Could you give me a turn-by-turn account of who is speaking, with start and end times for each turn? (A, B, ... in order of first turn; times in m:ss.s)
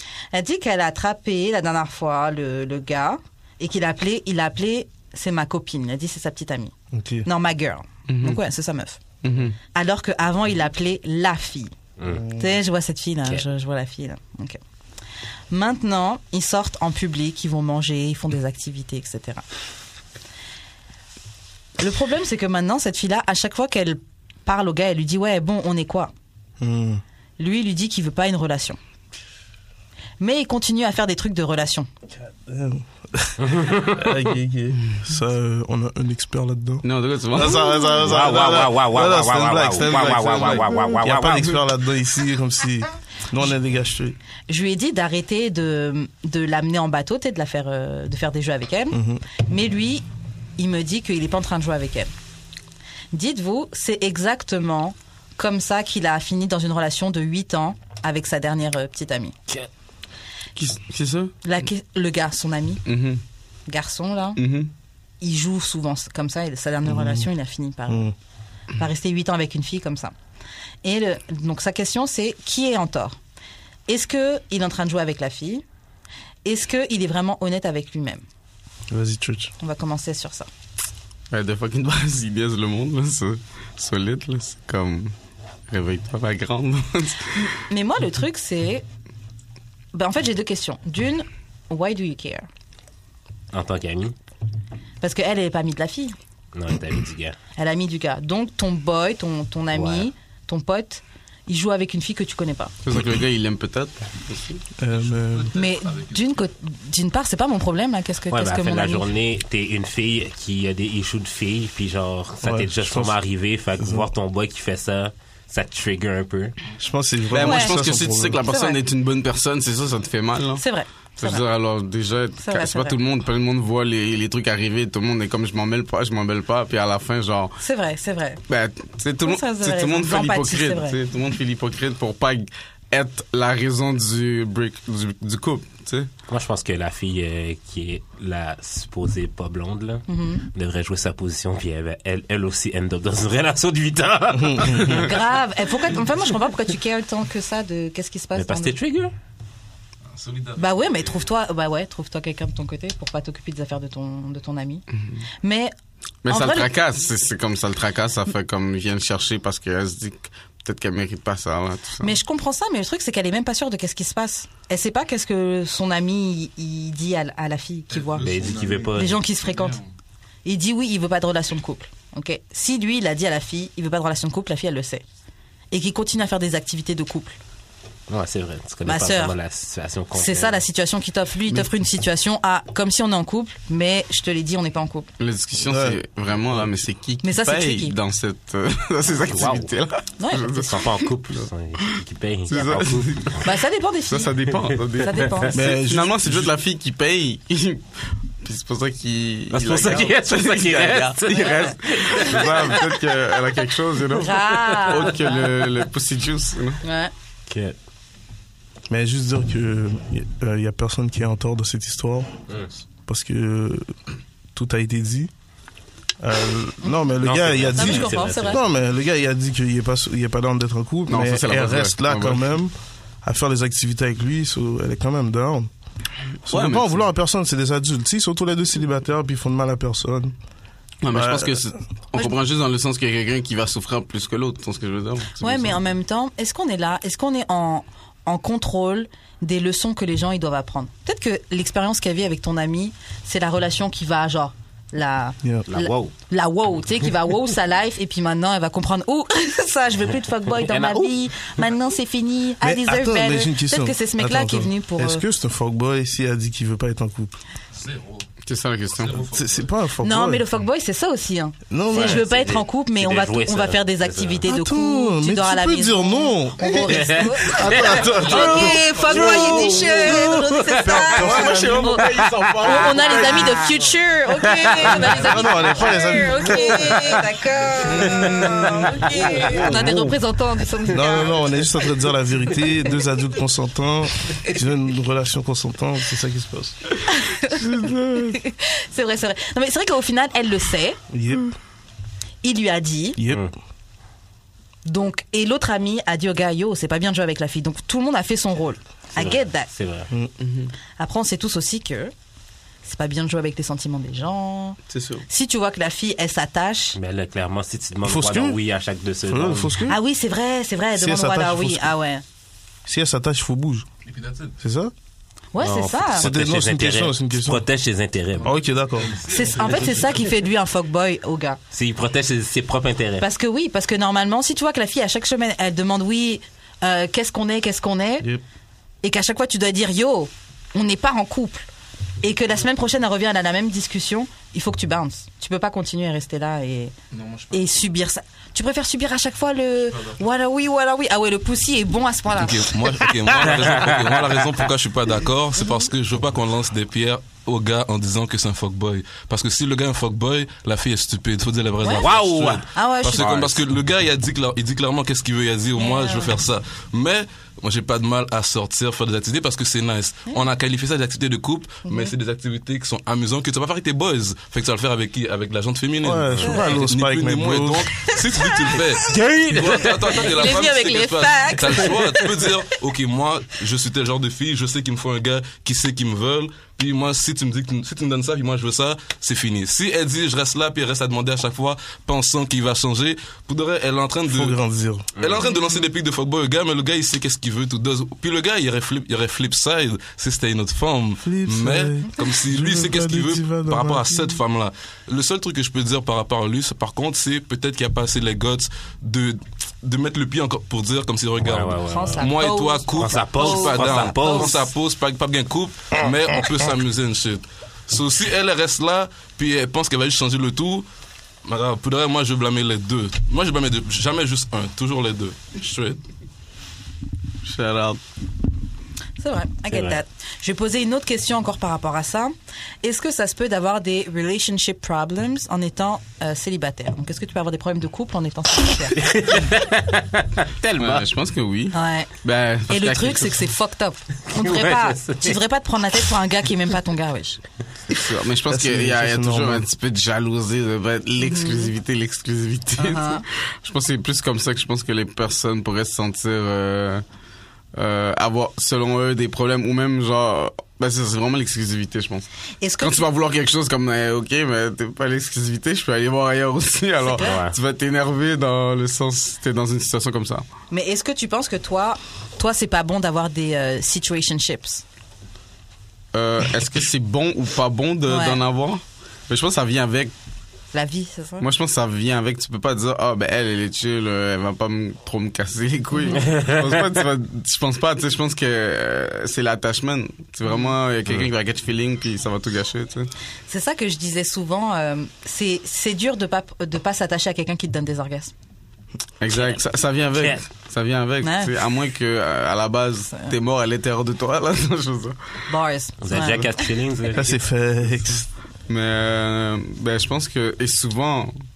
0:00.3-0:06.7 A
0:06.9-0:07.3 B
0:07.2-0:09.0 A
0:08.1-0:08.4 C
0:09.2-0:09.6 C
0:09.7-0:11.8 A
0:12.0-0:12.2 D
0:12.1-0:12.5 B
0:12.3-0:14.6 A
0:15.5-0:19.4 A
0:21.8-0:26.1 A
0:26.6-0:27.0 B
0:27.4-0:28.8 A
0:30.2-0:31.9 A
0:32.2-0:44.2 B
0:33.4-0:34.0 D
0:36.8-0:37.8 C
0:38.0-0:41.6 D
0:44.5-0:50.0 A
0:48.9-0:49.2 B
0:50.6-0:52.1 A
0:53.1-0:59.4 A
1:00.6-1:01.3 C
1:01.4-1:02.8 A
1:02.8-1:03.2 C
1:03.7-1:04.4 A
1:04.4-1:04.7 C
1:05.2-1:08.1 A
1:06.9-1:07.3 B
1:07.9-1:08.1 B
1:08.8-1:10.1 A
1:10.8-1:13.2 A
1:13.9-1:15.6 A
1:16.4-1:18.2 A
1:18.9-1:19.5 B
1:19.6-1:20.5 A
1:21.3-1:25.1 C
1:25.7-1:27.4 C
1:27.4-1:28.8 A
1:29.9-1:32.5 A
1:33.5-1:34.2 D
1:35.0-1:36.2 A
1:36.5-1:37.4 D
1:37.6-1:42.8 A
1:39.7-1:40.1 D
1:42.8-1:44.6 C
1:44.8-1:45.5 B
1:45.2-1:46.2 E
1:45.5-1:49.1 A
1:48.3-1:56.6 D
1:52.4-1:53.2 B
1:53.8-1:54.1 B
1:56.8-1:58.4 B
1:57.3-2:00.6 C
1:57.4-1:58.8 A
2:00.6-2:01.5 A
2:01.2-2:07.6 C
2:02.4-2:03.0 A
2:07.6-2:08.4 A
2:08.5-2:16.1 C
2:09.2-2:11.0 A
2:16.3-2:25.1 D
2:20.1-2:20.5 A
2:24.4-2:25.0 B
2:24.9-2:28.8 A
2:28.4-2:29.2 D
2:30.1-2:31.1 E
2:30.6-2:34.8 A
2:35.4-2:35.7 A
2:36.2-2:42.2 C
2:36.3-2:36.7 A
2:42.0-2:48.3 A
2:47.9-2:49.9 E
2:48.2-2:49.2 D
2:48.9-2:49.8 A
2:50.4-2:55.0 A
2:55.7-2:57.4 A
2:58.1-3:00.6 D
2:58.8-2:59.4 A
3:00.1-3:05.1 A
3:05.2-3:17.9 C
3:05.6-3:06.0 B
3:07.2-3:08.0 A
3:09.2-3:09.7 D
3:10.2-3:10.8 A
3:10.5-3:13.4 D
3:13.4-3:14.3 A
3:15.0-3:15.6 A
3:15.5-3:16.5 B
3:18.4-3:26.8 C
3:19.5-3:23.0 D
3:24.1-3:25.2 A
3:26.8-3:27.1 A
3:27.5-3:27.8 D
3:28.9-3:32.3 B
3:33.1-3:33.9 B
3:34.6-3:35.3 B
3:36.2-3:45.7 B
3:37.2-3:38.6 D
3:37.7-3:38.6 A
3:41.1-3:42.4 C
3:46.4-3:50.4 B
3:46.5-3:47.1 C
3:51.0-3:55.8 C
3:51.1-3:51.7 B
3:55.4-4:15.3 A
4:05.4-4:05.7 B
4:05.7-4:06.1 D
4:10.6-4:11.2 D
4:12.6-4:17.4 B
4:17.8-4:18.3 E
4:18.4-4:19.3 C
4:19.0-4:19.7 E
4:19.3-4:20.4 B
4:20.0-4:32.1 A
4:21.7-4:22.3 B
4:21.9-4:24.5 D
4:24.5-4:28.8 B
4:28.1-4:28.9 E
4:28.3-4:30.3 C
4:29.1-4:31.2 D
4:30.8-4:32.0 B
4:30.9-4:33.8 C
4:32.6-4:41.7 A
4:34.4-4:35.1 D
4:35.1-4:37.2 B
4:38.0-4:40.2 B
4:39.4-4:39.8 C
4:40.9-4:48.4 B
4:47.1-4:47.6 A
4:48.3-4:51.0 A
4:51.1-4:51.6 B
4:52.4-4:53.2 A
4:53.2-4:53.5 B
4:54.9-4:59.7 A
4:59.2-5:00.1 D
5:00.4-5:00.7 C
5:01.0-5:02.1 A
5:02.8-5:04.8 A
5:04.9-5:05.3 C
5:05.3-5:07.0 A
5:07.0-5:09.8 D
5:08.0-5:08.6 B
5:09.3-5:10.0 B
5:09.9-5:12.2 A
5:11.0-5:11.9 B
5:12.9-5:13.9 B
5:14.1-5:14.5 E
5:14.6-5:14.9 B
5:15.5-5:16.3 A
5:15.6-5:18.6 D
5:16.2-5:17.7 B
5:18.4-5:19.2 B
5:18.4-5:20.3 E
5:19.2-5:21.6 A
5:21.7-5:23.3 D
5:23.2-5:28.3 A
5:29.0-5:31.7 A
5:32.2-5:36.9 A
5:37.1-5:37.8 E
5:37.5-5:42.7 A
5:42.4-6:24.6 E
5:43.1-5:44.6 D
5:51.8-5:52.1 A
5:52.0-5:53.6 D
5:52.7-5:53.3 A
5:55.8-5:56.4 A
6:01.9-6:02.1 A
6:06.0-6:07.9 B
6:08.0-6:08.8 A
6:09.0-6:10.4 D
6:10.1-6:12.3 A
6:24.3-6:25.1 B
6:25.2-6:50.9 E
6:25.2-6:25.5 D
6:31.2-6:34.4 B
6:41.4-6:42.3 D
6:41.9-6:44.6 A
6:43.0-6:44.6 D
6:51.4-6:56.0 E
6:57.4-6:58.0 C
6:59.2-7:09.1 A
6:59.7-7:00.0 D
7:09.0-7:11.1 D
7:10.7-7:13.4 C
7:11.7-7:12.1 A
7:12.7-7:17.4 A
7:14.3-7:15.4 D
7:17.9-7:27.0 C
7:18.5-7:19.7 B
7:21.2-7:21.7 A
7:22.8-7:23.2 A
7:27.7-7:32.3 C
7:32.6-7:33.1 A
7:32.8-7:40.5 C
7:37.0-7:37.4 A
7:37.2-7:37.6 D
7:40.7-7:44.8 A
7:46.1-7:50.1 C
7:48.1-7:48.4 A
7:50.7-7:51.5 A
7:51.4-8:03.1 C
7:55.9-7:56.2 A
7:56.2-7:56.6 D
8:00.5-8:00.8 A
8:03.5-8:08.3 A
8:09.2-8:15.2 C
8:09.3-8:09.6 D
8:10.2-8:10.4 D
8:11.2-8:11.6 A
8:15.5-8:16.7 A
8:16.0-8:17.4 D
8:16.1-8:16.5 C
8:17.1-8:18.3 B
8:18.7-8:21.3 C